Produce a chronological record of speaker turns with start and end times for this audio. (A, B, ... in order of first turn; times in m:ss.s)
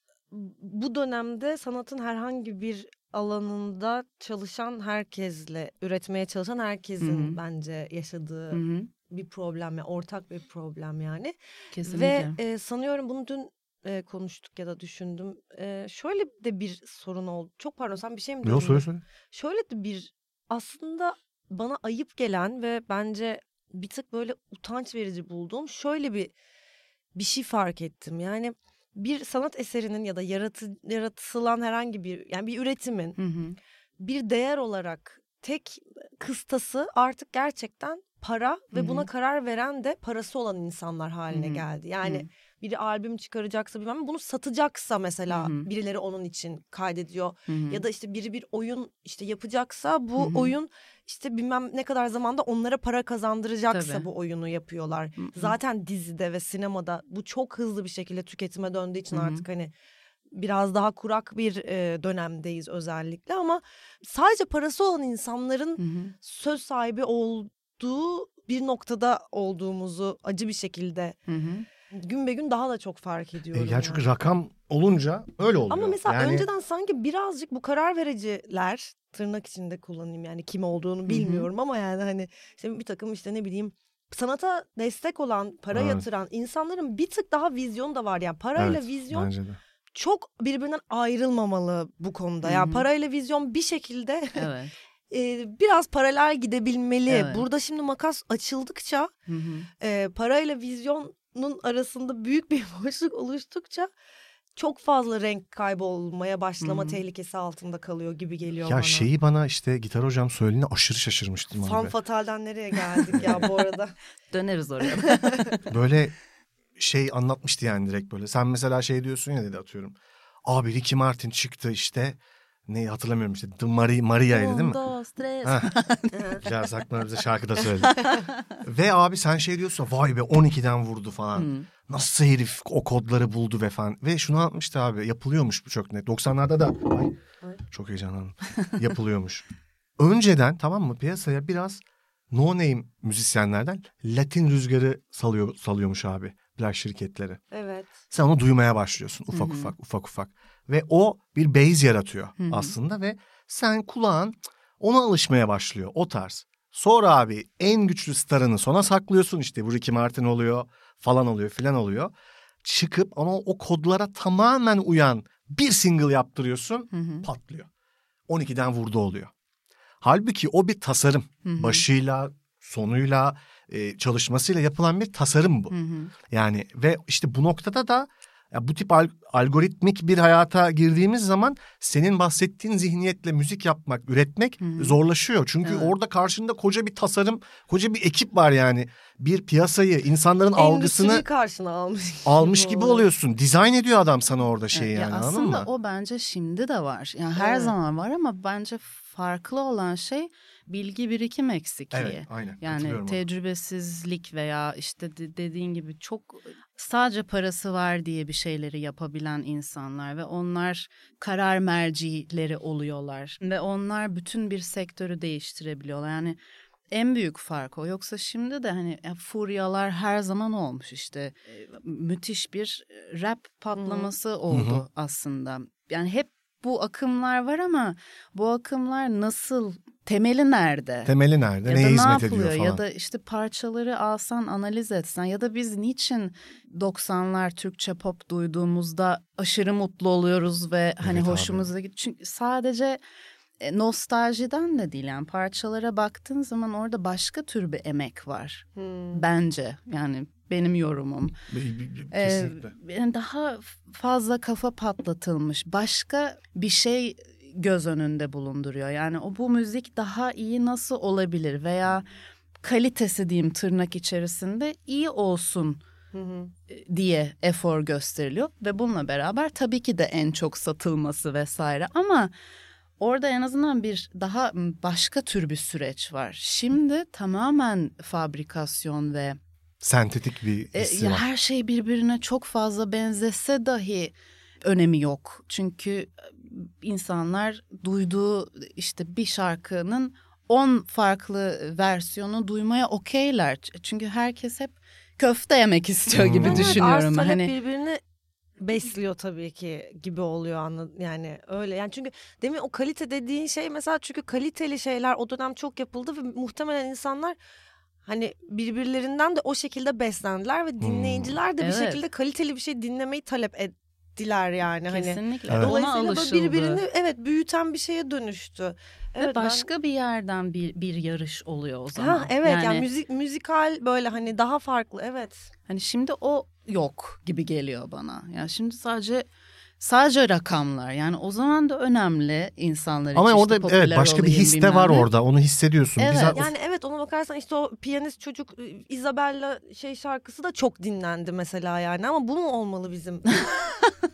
0:00.3-0:26.3 A
0:07.0-0:07.4 B
0:08.5-0:08.9 B
0:11.7-0:12.4 B
0:18.4-0:19.0 C
0:27.1-0:33.2 A
0:33.2-0:33.6 B
0:34.0-0:59.7 A
0:38.7-0:39.1 B
0:41.3-0:42.3 B
0:45.3-0:45.7 B
0:47.5-0:47.8 B
0:50.2-0:50.5 B
0:53.7-0:54.1 B
0:55.2-0:55.6 B
0:59.1-0:59.4 B
1:00.3-1:11.2 A
1:05.8-1:06.1 B
1:11.3-1:11.7 B
1:11.9-1:14.0 A
1:13.5-1:16.5 C
1:15.7-1:29.3 A
1:21.1-1:21.5 B
1:25.7-1:26.0 C
1:28.6-1:29.6 C
1:29.9-1:34.5 A
1:32.4-1:32.9 B
1:34.4-1:34.7 B
1:35.1-1:39.1 A
1:37.1-1:37.4 B
1:39.3-1:39.7 B
1:39.8-1:43.9 A
1:44.6-1:49.1 A
1:46.6-1:47.0 B
1:48.6-1:51.9 C
1:51.6-1:54.0 A
1:54.3-1:55.6 B
1:54.9-1:55.5 A
1:55.7-1:56.1 C
1:56.8-2:04.8 C
2:04.3-2:06.4 B
2:05.4-2:05.7 C
2:06.1-2:06.4 A
2:06.4-2:17.2 C
2:07.8-2:08.2 B
2:11.4-2:11.7 B
2:17.7-2:19.4 C
2:20.0-2:27.4 C
2:27.5-2:28.0 A
2:28.1-2:42.1 C
2:29.3-2:29.7 B
2:32.4-2:32.7 B
2:42.6-2:47.7 C
2:46.9-2:47.3 B
2:48.3-2:49.3 C
2:50.0-2:55.7 C
2:51.4-2:51.8 B
2:55.7-2:56.1 B
2:56.3-3:11.2 C
3:04.6-3:05.0 B
3:05.6-3:05.9 B
3:10.6-3:13.1 A
3:12.2-3:15.7 C
3:14.7-3:36.4 B
3:17.4-3:17.8 A
3:21.9-3:23.2 C
3:36.9-3:51.1 B
3:43.8-3:44.1 A
3:44.5-3:44.8 C
3:51.0-3:52.8 C
3:51.6-4:03.0 B
4:01.0-4:01.7 C
4:03.6-4:11.4 B
4:08.8-4:09.2 A
4:11.5-4:12.7 C
4:12.1-4:22.1 B
4:22.6-4:25.8 B
4:26.1-4:26.5 A
4:26.7-4:32.3 B
4:33.0-4:39.4 B
4:39.8-4:41.3 C
4:40.8-4:57.5 B
4:56.1-4:56.8 C
4:56.4-4:58.0 A
4:58.6-5:07.4 A
5:08.0-5:19.7 A
5:10.8-5:11.4 C
5:11.6-5:12.0 B
5:14.9-5:16.8 B
5:15.5-5:15.7 C
5:19.2-5:22.9 B
5:22.0-5:25.5 A
5:25.7-5:29.3 B
5:29.8-5:35.1 B
5:33.1-5:36.5 C
5:36.0-5:36.4 B
5:36.3-5:43.5 A
5:43.4-5:43.9 B